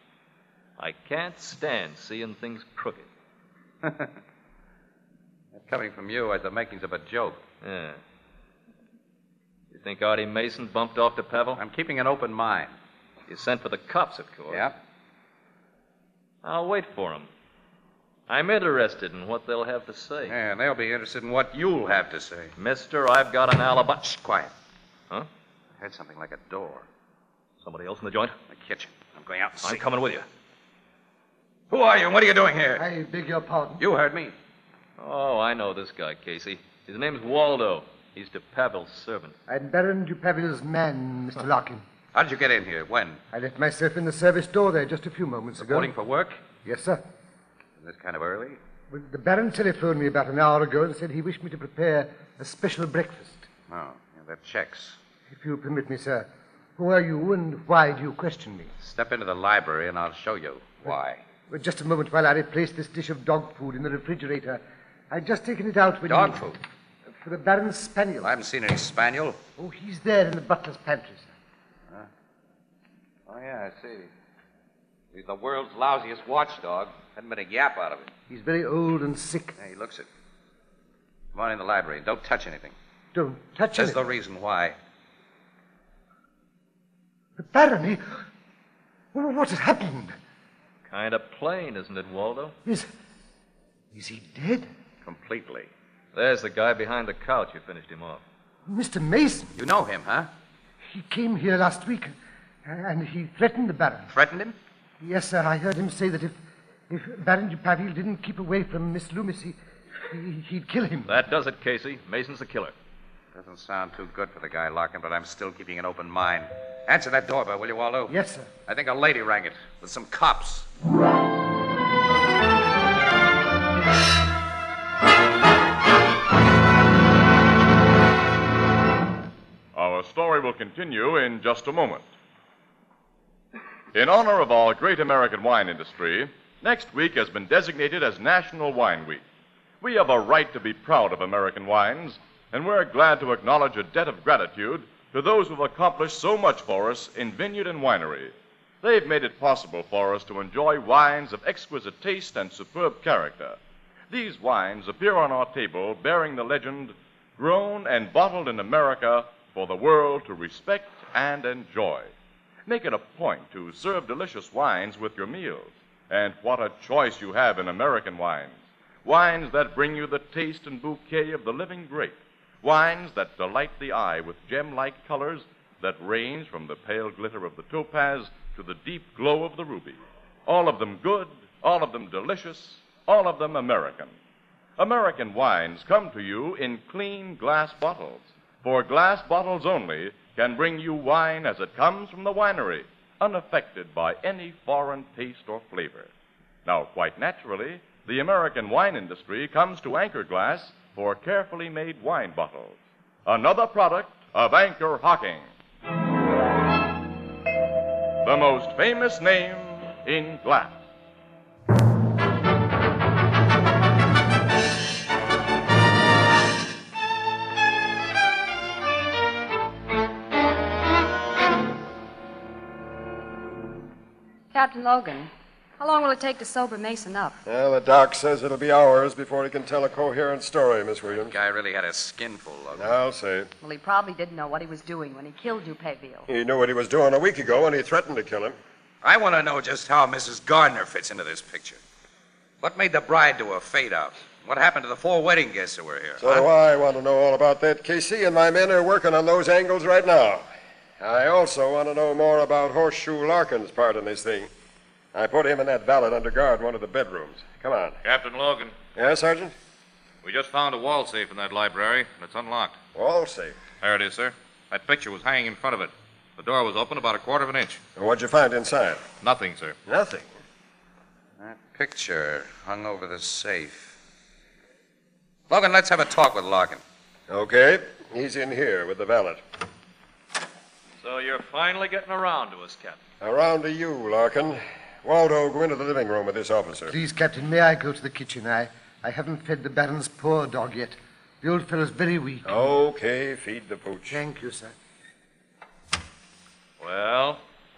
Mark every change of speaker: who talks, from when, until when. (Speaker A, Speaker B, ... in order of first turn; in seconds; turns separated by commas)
Speaker A: 0.8-3.1, Speaker B: 3.8-4.1, Speaker B: 5.5-7.4, Speaker A: 7.6-8.0, Speaker A: 9.7-11.6, Speaker B: 11.6-12.8, Speaker A: 13.3-14.7, Speaker B: 14.5-14.8, Speaker A: 16.4-17.3, Speaker A: 18.3-20.4, Speaker B: 20.3-22.5, Speaker A: 22.6-24.0, Speaker B: 24.0-24.5, Speaker B: 25.8-26.9, Speaker A: 27.6-28.4, Speaker B: 28.5-29.8, Speaker A: 29.6-30.3, Speaker B: 31.7-32.8, Speaker C: 32.8-33.8, Speaker B: 33.8-34.4, Speaker A: 35.0-39.4, Speaker C: 39.5-41.8, Speaker B: 42.1-43.2, Speaker C: 43.3-45.9, Speaker B: 45.6-46.4, Speaker C: 46.6-47.0, Speaker B: 47.8-48.6, Speaker C: 48.9-53.5, Speaker B: 53.7-55.0, Speaker C: 55.3-58.7, Speaker B: 58.8-61.2, Speaker C: 61.5-66.4, Speaker B: 66.1-66.6, Speaker C: 67.2-68.3, Speaker B: 68.2-69.4, Speaker C: 69.6-71.3, Speaker B: 73.3-74.1, Speaker B: 75.1-78.1, Speaker C: 78.3-79.5, Speaker B: 79.6-80.1, Speaker B: 81.3-82.8, Speaker C: 83.1-84.0, Speaker B: 83.8-84.8, Speaker C: 87.4-88.2, Speaker C: 89.1-90.2, Speaker A: 90.9-92.5, Speaker C: 93.9-94.7, Speaker B: 95.4-95.7, Speaker A: 96.1-98.2, Speaker C: 98.7-99.5, Speaker B: 99.6-100.3, Speaker C: 100.8-104.1, Speaker B: 104.1-104.6, Speaker C: 105.0-106.4, Speaker C: 106.9-109.6, Speaker C: 110.1-111.1, Speaker A: 111.1-112.7, Speaker B: 113.3-120.7, Speaker C: 118.1-118.5, Speaker D: 129.7-132.1, Speaker D: 133.9-139.2, Speaker D: 139.8-153.6, Speaker D: 154.1-162.1, Speaker D: 162.7-184.2, Speaker D: 184.8-196.1, Speaker D: 196.7-205.5, Speaker D: 208.2-210.8, Speaker E: 224.5-227.3, Speaker F: 227.5-231.4, Speaker B: 231.1-232.8, Speaker F: 232.8-233.5, Speaker E: 233.6-236.3, Speaker F: 236.3-238.6, Speaker B: 239.0-241.8, Speaker B: 242.6-246.5, Speaker F: 246.2-250.5, Speaker F: 251.0-254.5, Speaker F: 255.1-258.0, Speaker G: 258.0-258.8, Speaker F: 258.9-259.6, Speaker G: 260.2-262.8, Speaker F: 262.9-263.6, Speaker G: 263.8-267.8, Speaker F: 268.0-269.1, Speaker G: 269.2-269.8, Speaker F: 269.9-270.3, Speaker B: 271.4-274.0, Speaker B: 275.5-276.8, Speaker F: 277.3-279.4, Speaker A: 281.0-283.0, Speaker F: 283.2-287.0, Speaker C: 286.9-292.6, Speaker F: 292.4-294.2, Speaker C: 294.1-294.7, Speaker A: 296.8-297.4